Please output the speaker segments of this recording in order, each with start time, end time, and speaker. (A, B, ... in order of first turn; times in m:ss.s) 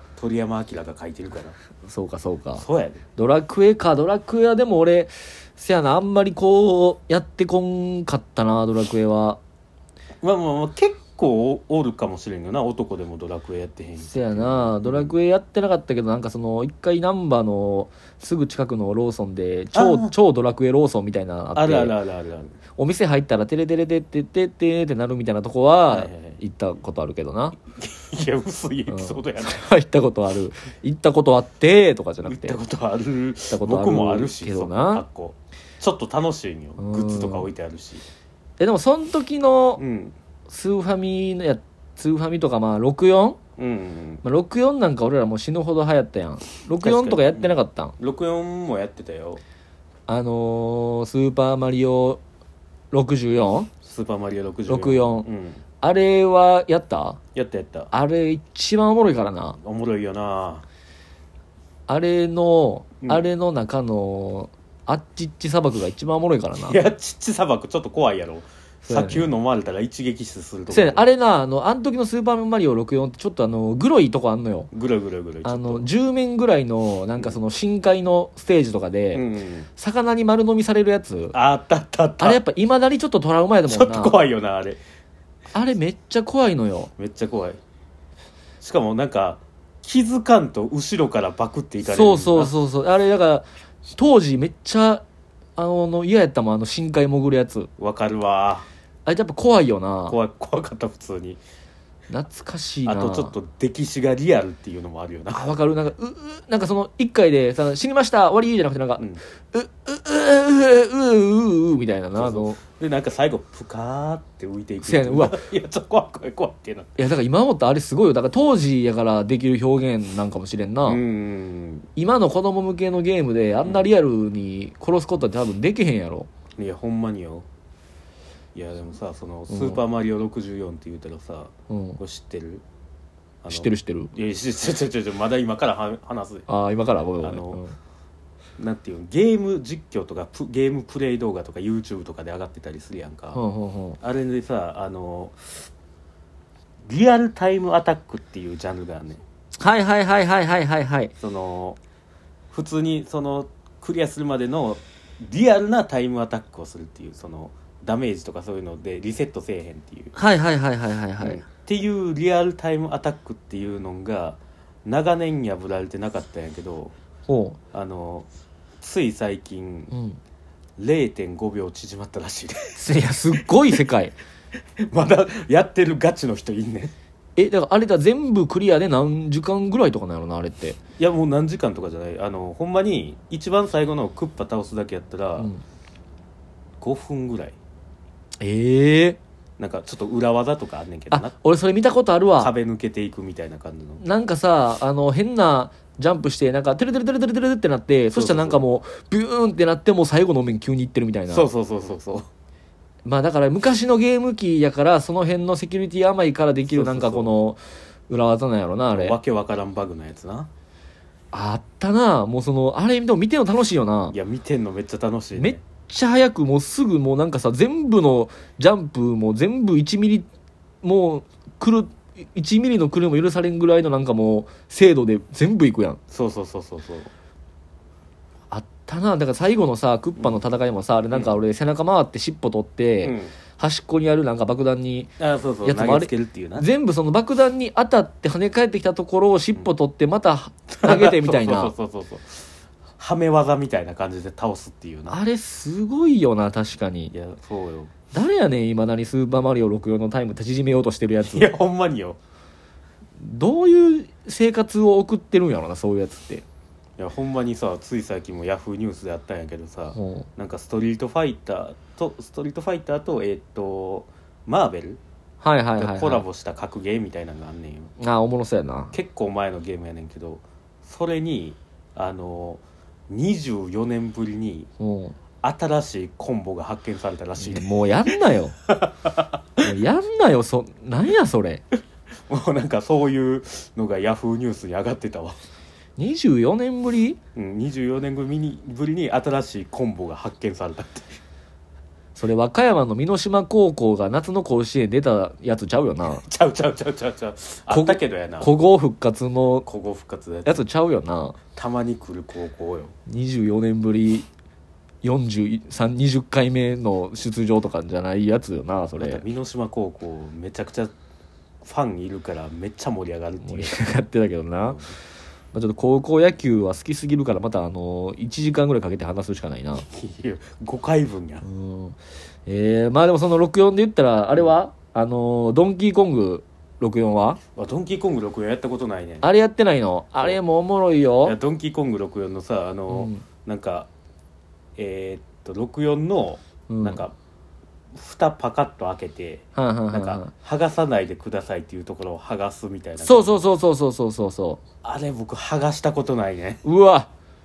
0:00.2-0:01.6 A
0:01.8-0:02.6 B
0:02.6-0:03.0 A
0:03.2-0:09.4 B
0:10.2-0:15.1 A
0:14.0-0:21.9 B
0:19.7-0:20.1 A
0:21.5-0:22.6 A
0:22.8-0:27.5 B
0:25.9-0:26.4 A
0:27.7-0:29.7 A
0:28.9-0:32.6 B
0:32.2-0:38.0 A
0:33.5-0:35.0 B
0:36.8-0:37.5 B
0:38.6-0:39.8 B
0:39.8-0:40.2 A
0:40.5-0:43.4 B
0:43.6-0:44.2 A
0:44.2-0:47.9 B
0:46.8-0:49.4 A
0:50.1-0:52.2 B
0:52.9-0:53.7 B
0:53.8-0:55.6 A
0:54.7-0:55.2 B
0:55.8-0:57.2 B
0:57.3-0:57.9 A
0:57.9-0:59.6 B
0:59.6-1:00.6 A
1:01.9-1:06.8 B
1:06.6-1:11.1 A
1:08.8-1:09.3 B
1:10.7-1:14.7 B
1:14.7-1:15.9 A
1:15.4-1:19.2 B
1:19.1-1:19.7 A
1:19.8-1:21.3 B
1:21.3-1:22.4 A
1:22.2-1:24.2 B
1:23.6-1:24.8 A
1:25.5-1:26.9 B
1:27.0-1:27.6 A
1:28.6-1:32.5 A
1:31.9-1:35.0 B
1:35.6-1:37.7 B
1:37.8-1:38.7 A
1:39.0-1:40.2 B
1:40.1-1:41.4 A
1:42.1-1:43.3 B
1:42.8-1:45.5 A
1:45.3-1:52.6 B
1:52.2-1:57.0 A
1:54.8-1:55.4 B
1:57.0-2:01.0 B
2:00.8-2:01.9 A
2:02.0-2:06.3 B
2:03.6-2:03.9 A
2:06.6-2:07.4 A
2:08.5-2:12.6 A
2:09.5-2:09.8 B
2:11.7-2:12.0 B
2:13.4-2:16.5 A
2:13.5-2:14.1 B
2:16.5-2:17.7 B
2:17.2-2:17.6 A
2:18.6-2:23.4 A
2:23.3-2:24.0 B
2:24.0-2:25.6 A
2:26.9-2:29.2 A
2:29.6-2:31.1 B
2:31.2-2:31.8 A
2:32.5-2:40.2 A
2:40.2-2:41.4 B
2:41.2-2:47.0 A
2:47.3-2:47.6 B
2:47.7-2:48.3 A
2:48.8-2:49.9 A
2:49.9-2:50.2 B
2:50.8-2:53.8 A
2:52.8-2:54.2 B
2:54.8-2:56.9 A
2:57.4-3:00.8 B
3:01.0-3:05.5 A
3:06.8-3:07.6 A
3:08.4-3:09.2 B
3:09.6-3:11.3 A
3:11.1-3:12.5 B
3:12.4-3:14.0 A
3:14.0-3:21.5 B
3:18.1-3:18.6 A
3:21.3-3:22.2 A
3:23.0-3:29.2 B
3:26.7-3:27.3 A
3:28.9-3:30.5 A
3:31.3-3:34.1 B
3:34.1-3:35.6 A
3:35.4-3:40.3 B
3:40.8-3:46.0 B
3:46.1-3:47.1 A
3:48.5-3:55.1 B
3:51.1-3:51.4 A
3:53.0-3:53.3 A
3:55.2-3:56.7 A
3:55.6-4:01.7 B
4:00.8-4:05.2 A
4:05.1-4:07.1 B
4:07.1-4:07.9 A
4:08.1-4:11.5 B
4:11.2-4:12.2 A
4:13.2-4:16.4 B
4:17.0-4:25.0 A
4:19.9-4:20.3 B
4:25.4-4:26.2 B
4:25.8-4:27.9 A
4:28.0-4:28.9 B
4:28.9-4:34.7 A
4:34.8-4:35.2 B
4:35.4-4:37.7 A
4:37.4-4:38.6 B
4:38.7-4:39.3 A
4:39.6-4:41.6 B
4:42.3-4:45.4 A
4:46.0-4:47.2 B
4:47.4-4:51.2 A
4:52.2-4:56.2 B
4:56.1-4:58.5 A
4:57.7-4:59.7 B
4:59.6-5:00.6 A
5:00.4-5:01.4 B
5:01.5-5:02.9 A
5:03.1-5:04.2 B
5:05.0-5:09.2 B
5:09.0-5:10.9 A
5:11.6-5:13.8 A
5:13.4-5:14.8 B
5:14.6-5:14.9 A
5:15.5-5:19.8 B
5:19.8-5:21.4 A
5:21.4-5:27.4 B
5:27.6-5:29.3 A
5:29.2-5:31.4 B
5:31.2-5:33.9 A
5:32.9-5:33.2 B
5:34.8-5:37.1 A
5:36.7-5:37.0 B
5:37.9-5:43.4 A
5:39.6-5:40.3 B
5:43.0-5:44.6 B
5:44.8-5:46.6 A
5:46.6-5:47.1 B